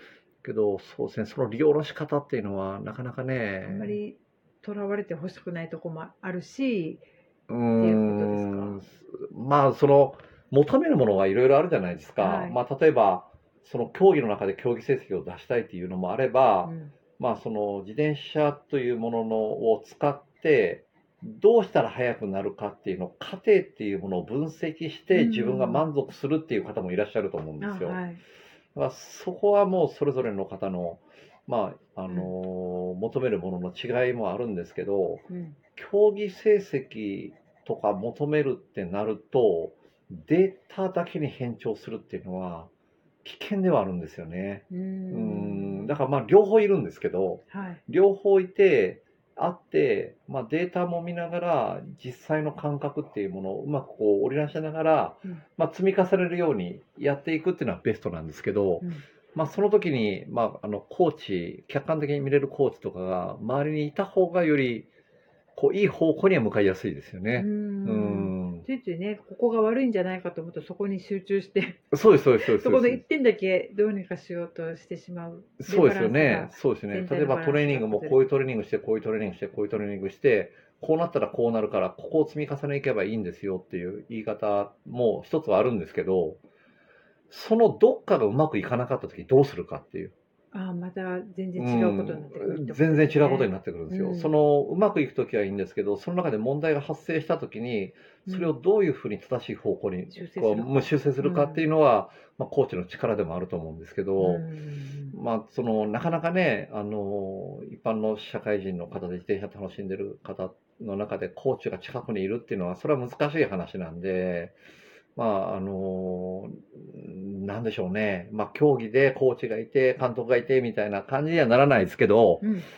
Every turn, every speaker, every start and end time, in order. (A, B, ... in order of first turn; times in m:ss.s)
0:00.4-0:04.0 A
0:03.6-0:07.0 B
0:07.5-0:28.0 A
0:07.8-0:08.8 B
0:12.2-0:12.6 B
0:16.6-0:16.9 B
0:25.1-0:25.8 B
0:27.6-0:28.2 B
0:28.7-0:42.7 A
0:35.3-0:35.6 B
0:43.2-1:04.9 A
0:44.7-0:46.0 B
0:47.5-0:47.8 B
1:05.5-1:08.6 A
1:07.3-1:11.8 B
1:11.9-1:13.0 A
1:12.4-1:18.3 B
1:15.6-1:26.4 A
1:27.3-1:30.1 A
1:30.5-1:34.3 B
1:31.6-1:44.4 A
1:38.3-1:38.6 B
1:40.1-1:41.6 B
1:44.2-1:45.2 B
1:45.1-1:54.5 A
1:55.2-2:02.4 A
2:02.4-2:02.7 B